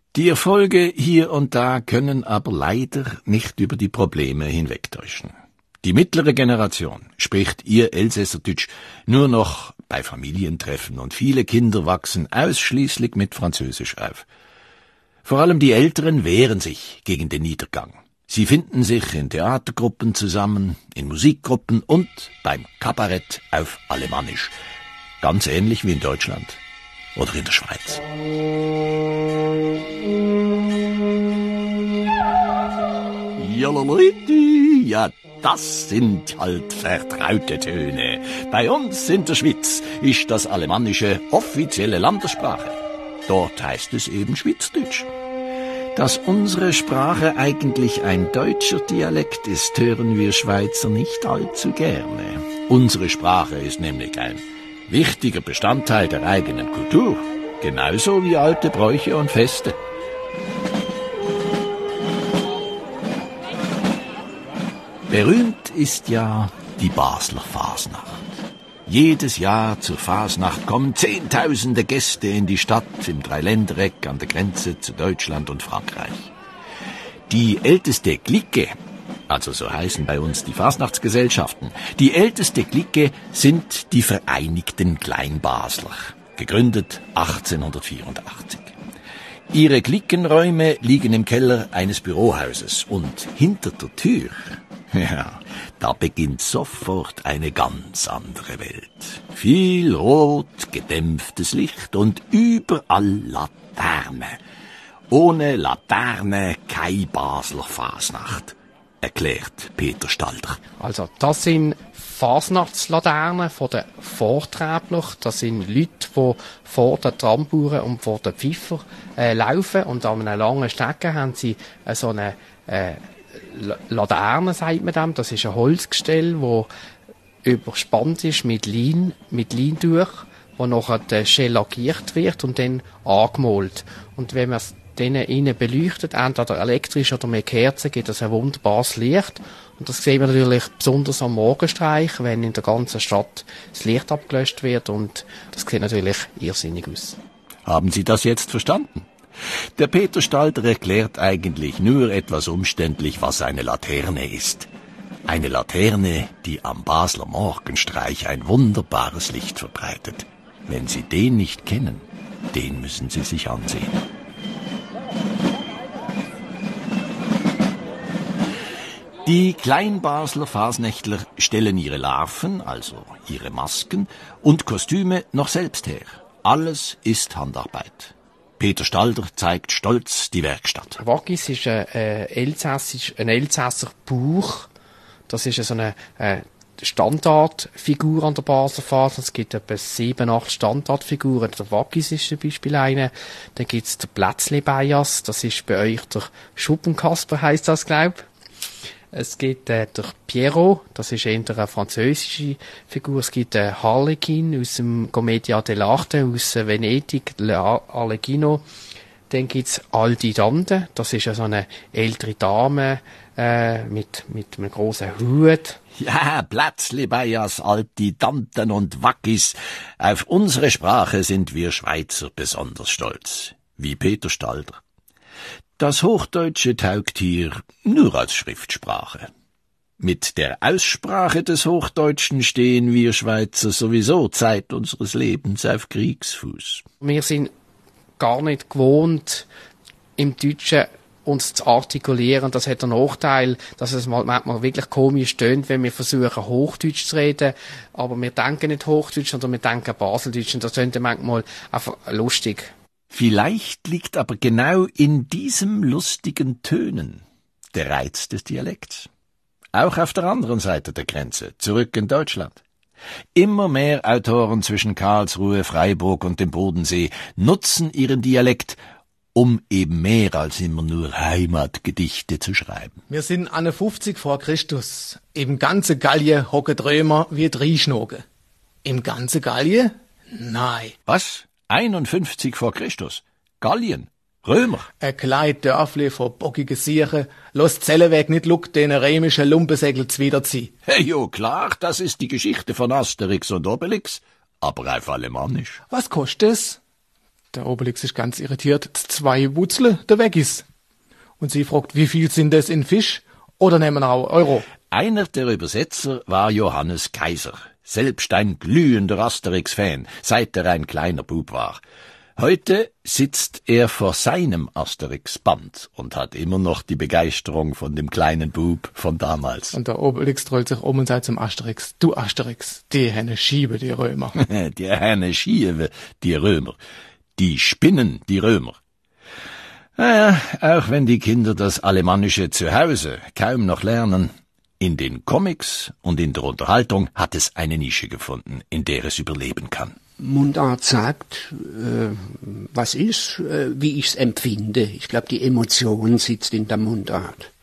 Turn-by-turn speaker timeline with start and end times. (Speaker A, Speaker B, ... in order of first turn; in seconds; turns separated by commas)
Speaker A: 0.1-14.2, Speaker A: 15.2-24.5, Speaker A: 25.2-26.6, Speaker A: 27.1-28.0, Speaker A: 33.4-45.1, Speaker A: 46.0-59.8, Speaker A: 65.1-76.3, Speaker A: 77.3-78.7, Speaker A: 79.3-88.8, Speaker A: 89.5-104.4, Speaker A: 105.1-110.6, Speaker B: 110.8-126.7, Speaker B: 127.4-147.2, Speaker A: 147.6-149.1, Speaker A: 149.8-154.7, Speaker A: 155.3-164.0, Speaker A: 169.2-181.0, Speaker B: 181.0-184.7, Speaker B: 185.3-198.2, Speaker B: 199.1-208.6, Speaker B: 209.3-215.8, Speaker A: 216.0-224.8, Speaker A: 225.8-229.3, Speaker A: 230.0-236.8, Speaker B: 237.0-237.5, Speaker B: 238.2-239.5, Speaker B: 240.2-252.7, Speaker A: 253.1-259.1, Speaker A: 259.7-262.6, Speaker A: 263.4-268.8, Speaker A: 269.4-273.0, Speaker C: 273.1-278.2, Speaker C: 278.9-280.9, Speaker A: 281.1-284.9, Speaker C: 285.0-290.7, Speaker A: 290.9-295.8, Speaker C: 295.9-296.8, Speaker C: 297.5-300.6, Speaker C: 301.4-304.6, Speaker A: 304.9-311.8, Speaker A: 312.4-319.8, Speaker C: 319.7-324.3, Speaker A: 324.4-326.8, Speaker A: 327.4-328.8, Speaker A: 330.0-340.0, Speaker D: 340.2-347.3